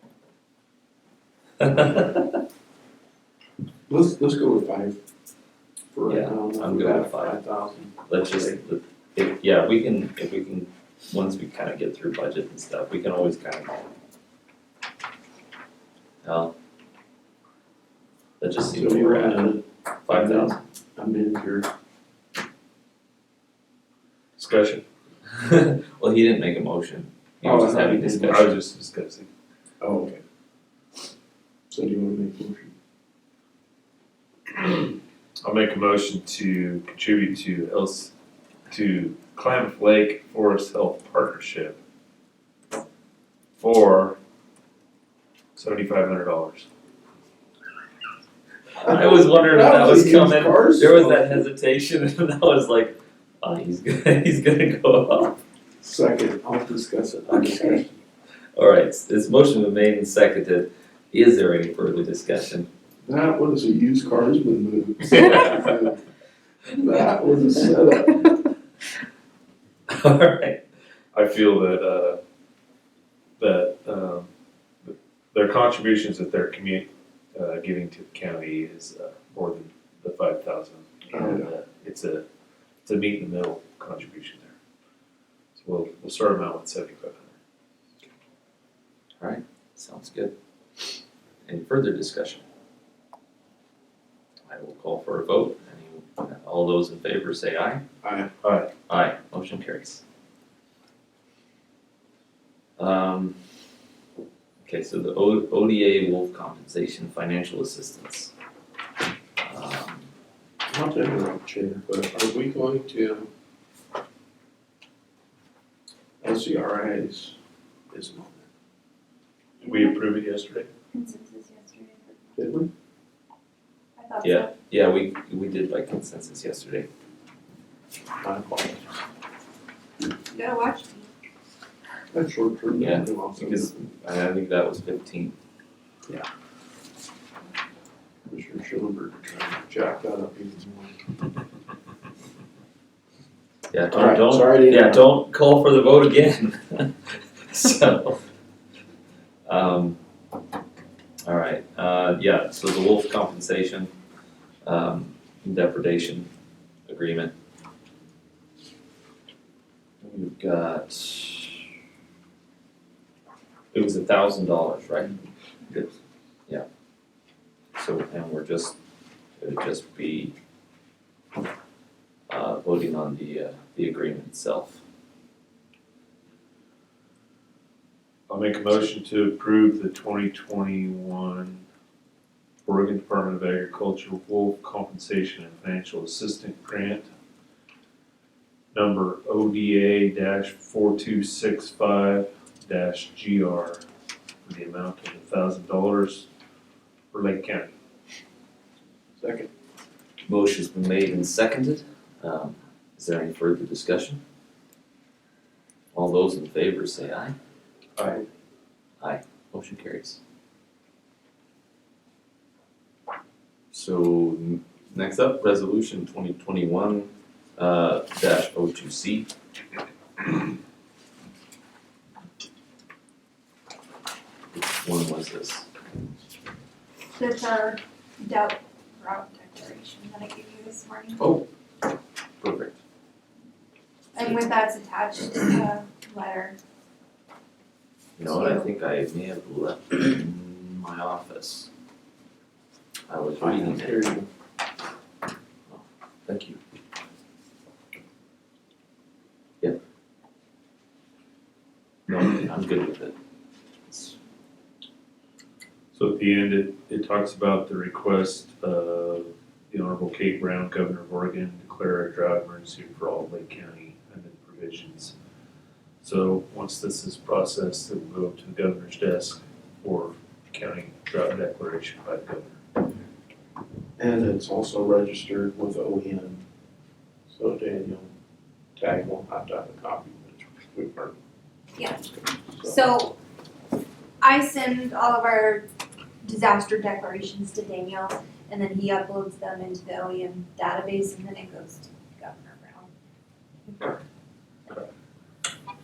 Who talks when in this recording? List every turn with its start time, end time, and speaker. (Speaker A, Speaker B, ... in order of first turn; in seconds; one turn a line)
Speaker A: 1.6-2.4
Speaker B: 3.9-5.0
Speaker B: 5.9-8.6
Speaker A: 6.1-7.4
Speaker A: 8.1-13.9
Speaker A: 16.2-16.5
Speaker A: 18.4-19.5
Speaker B: 18.7-21.7
Speaker A: 20.1-20.6
Speaker C: 24.4-24.8
Speaker A: 25.4-28.6
Speaker B: 27.4-28.4
Speaker C: 28.2-29.3
Speaker B: 29.8-30.2
Speaker B: 31.7-32.7
Speaker C: 35.4-38.1
Speaker C: 38.7-41.8
Speaker C: 43.5-44.2
Speaker C: 45.5-46.7
Speaker A: 48.8-55.4
Speaker B: 48.8-51.4
Speaker B: 55.8-57.9
Speaker A: 57.3-57.8
Speaker A: 58.5-62.7
Speaker B: 63.0-66.0
Speaker A: 65.2-65.5
Speaker B: 66.7-68.4
Speaker A: 69.9-70.6
Speaker C: 71.1-72.2
Speaker C: 73.4-74.3
Speaker C: 74.8-82.2
Speaker B: 81.1-81.5
Speaker C: 82.8-84.5
Speaker C: 85.5-87.3
Speaker A: 89.2-90.3
Speaker A: 91.5-92.4
Speaker A: 94.5-97.8
Speaker B: 98.0-98.3
Speaker C: 98.4-98.7
Speaker A: 98.9-100.0
Speaker A: 102.8-103.3
Speaker A: 104.6-108.3
Speaker A: 109.4-110.1
Speaker B: 110.7-113.3
Speaker B: 116.2-117.3
Speaker B: 117.9-118.5
Speaker D: 119.6-120.0
Speaker C: 119.6-120.7
Speaker D: 120.9-122.4
Speaker B: 122.4-122.7
Speaker D: 124.0-124.5
Speaker A: 124.2-126.9
Speaker B: 128.2-129.0
Speaker D: 130.3-131.1
Speaker B: 132.1-133.7
Speaker A: 132.8-135.3
Speaker B: 138.2-141.1
Speaker A: 143.7-148.2
Speaker B: 143.9-145.1
Speaker A: 149.4-150.0
Speaker A: 151.2-153.9
Speaker A: 154.6-156.3
Speaker A: 156.9-157.3
Speaker A: 160.0-161.6
Speaker A: 163.7-165.1
Speaker A: 167.8-168.8
Speaker A: 169.4-170.3
Speaker A: 172.3-174.8
Speaker C: 178.3-181.6
Speaker C: 182.6-187.1
Speaker C: 188.7-193.8
Speaker C: 194.4-196.3
Speaker C: 197.1-197.7
Speaker B: 199.2-199.5
Speaker A: 200.3-204.2
Speaker A: 205.9-207.3
Speaker C: 208.0-208.2
Speaker A: 209.0-210.2
Speaker A: 213.7-219.3
Speaker A: 224.5-225.7
Speaker D: 227.2-231.2
Speaker A: 231.2-231.4
Speaker A: 232.4-232.8
Speaker D: 234.1-236.6
Speaker A: 238.2-241.7
Speaker D: 238.2-238.7
Speaker A: 243.1-244.0
Speaker B: 243.4-244.3
Speaker A: 245.7-246.6
Speaker A: 252.1-253.1
Speaker A: 253.9-254.2
Speaker C: 255.9-265.1
Speaker C: 266.0-272.6
Speaker B: 274.0-276.4
Speaker B: 277.3-278.1
Speaker B: 278.8-281.1
Speaker D: 281.8-282.1
Speaker D: 282.6-283.2
Speaker D: 284.2-285.7
Speaker D: 286.2-292.9
Speaker D: 293.6-294.0